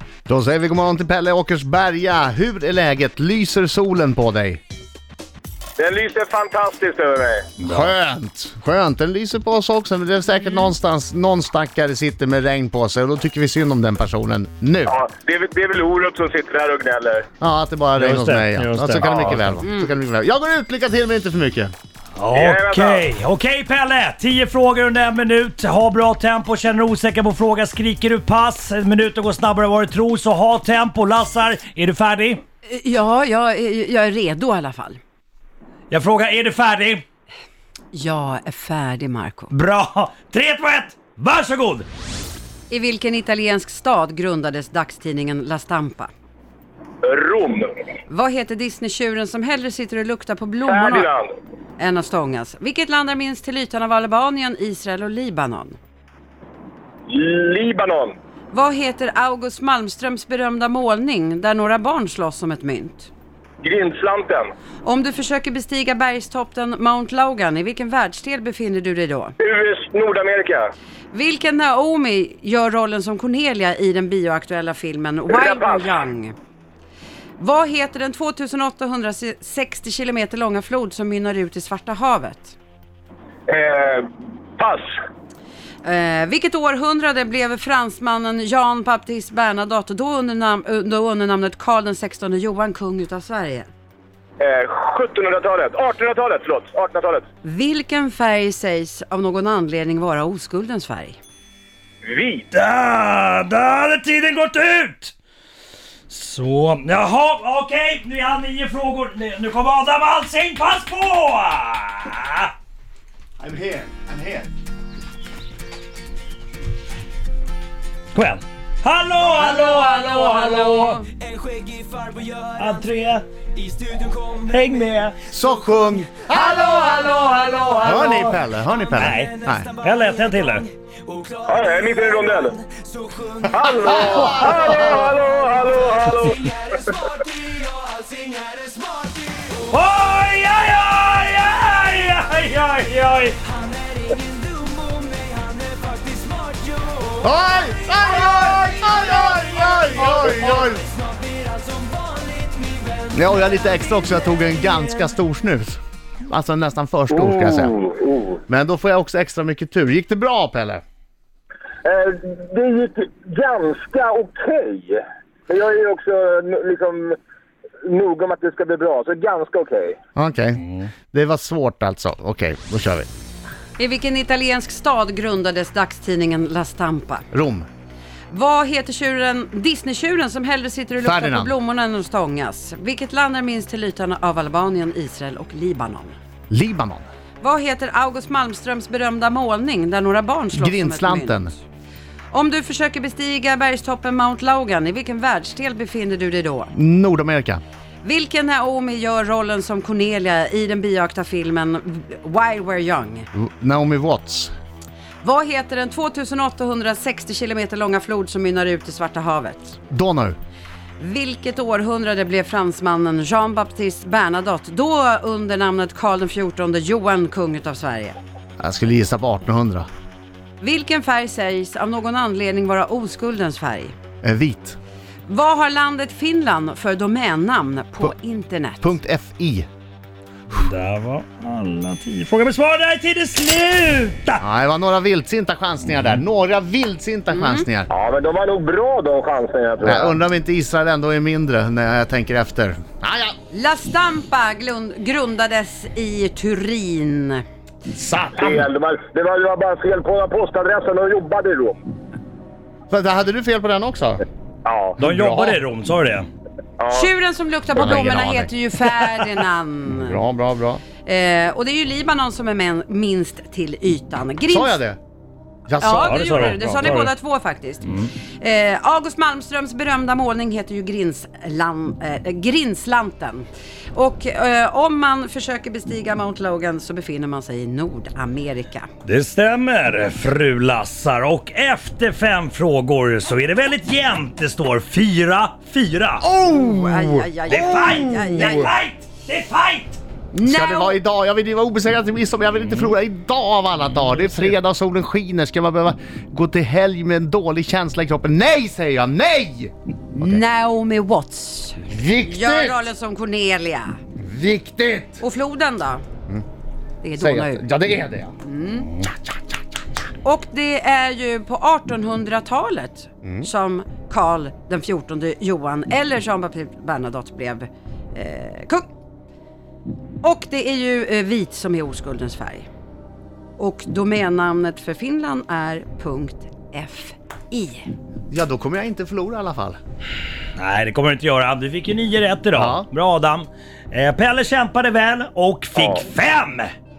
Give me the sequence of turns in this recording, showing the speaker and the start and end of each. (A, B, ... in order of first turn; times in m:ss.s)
0:00.3-0:04.6 A
0:05.8-0:07.5 B
0:07.6-0:07.9 C
0:07.6-0:15.0 A
0:14.9-0:17.2 B
0:17.4-0:21.7 A
0:17.9-0:19.6 C
0:19.0-0:19.3 B
0:19.6-0:19.9 D
0:22.2-0:32.4 C
0:22.3-0:23.1 B
0:32.6-0:35.0 D
0:35.9-0:37.0 C
0:37.9-0:39.5 D
0:39.5-0:41.9 C
0:42.7-0:46.1 D
0:47.0-0:47.8 B
0:48.1-0:51.1 D
0:50.6-0:51.3 B
0:51.8-0:55.8 D
0:57.1-0:58.1 B
0:58.5-1:03.1 D
1:03.6-1:04.5 B
1:04.8-1:09.3 D
1:09.4-1:10.7 B
1:11.1-1:16.3 D
1:15.3-1:15.9 B
1:17.4-1:22.6 D
1:23.5-1:24.0 B
1:24.6-1:24.9 B
1:25.8-1:33.7 D
1:34.4-1:37.2 B
1:37.4-1:41.2 D
1:42.0-1:42.4 B
1:42.5-1:45.1 C
1:46.1-1:52.5 C
1:53.4-1:54.5 A
1:58.1-2:01.0 C
2:01.4-2:02.4 E
2:02.6-2:03.3 C
2:03.8-2:04.2 E
2:04.4-2:05.2 C
2:05.3-2:06.8 A
2:07.0-2:08.3 C
2:07.8-2:09.7 A
2:08.9-2:10.7 C
2:11.4-2:12.6 B
2:13.5-2:16.5 B
2:13.6-2:15.1 A
2:14.1-2:15.0 C
2:18.0-2:19.0 E
2:19.6-2:23.4 C
2:24.7-2:26.3 E
2:27.2-2:30.8 A
2:31.6-2:31.9 E
2:33.1-2:37.7 A
2:37.1-2:38.4 B
2:38.5-2:40.8 A
2:41.8-2:47.2 B
2:47.8-2:50.0 B
2:50.2-2:53.1 A
2:53.8-2:57.2 D
2:57.3-2:57.7 A
2:58.3-3:06.2 D
3:01.0-3:01.5 A
3:06.5-3:07.1 A
3:07.4-3:11.6 D
3:10.5-3:11.5 A
3:12.3-3:16.7 D
3:16.7-3:17.6 A
3:18.0-3:23.3 D
3:23.3-3:24.5 A
3:25.2-3:29.8 D
3:29.9-3:30.4 A
3:31.0-3:38.2 D
3:38.6-3:39.9 A
3:40.6-3:43.9 D
3:44.2-3:44.8 A
3:45.3-3:49.0 D
3:48.8-3:49.7 A
3:50.5-3:54.4 C
3:54.4-3:57.9 A
3:57.3-3:57.6 D
3:57.9-4:00.2 B
3:59.8-4:03.3 A
4:03.5-4:07.4 D
4:07.9-4:08.7 A
4:08.4-4:11.8 B
4:12.9-4:14.2 A
4:14.6-4:15.0 B
4:15.0-4:15.6 A
4:15.0-4:16.3 C
4:16.8-4:17.1 B
4:16.9-4:20.2 D
4:17.7-4:18.5 A
4:19.9-4:20.8 A
4:21.0-4:24.8 D
4:24.5-4:25.0 A
4:25.7-4:26.9 A
4:25.8-4:38.9 D
4:25.9-4:27.1 C
4:27.8-4:28.1 C
4:39.0-4:46.2 C
4:46.2-4:48.5 A
4:46.4-4:48.7 D
4:47.5-4:50.0 C
4:50.3-5:00.4 A
4:50.4-4:51.0 D
5:00.2-5:04.0 D
5:01.8-5:02.9 A
5:04.2-5:05.2 A
5:05.2-5:06.0 D
5:07.0-5:07.7 D
5:07.2-5:08.3 A
5:08.4-5:08.9 D
5:10.2-5:18.8 D
5:13.2-5:13.5 A
5:20.2-5:22.7 D
5:23.6-5:27.8 D
5:28.3-5:29.8 A
5:30.6-5:36.7 C
5:32.5-5:32.9 A
5:35.8-5:36.0 B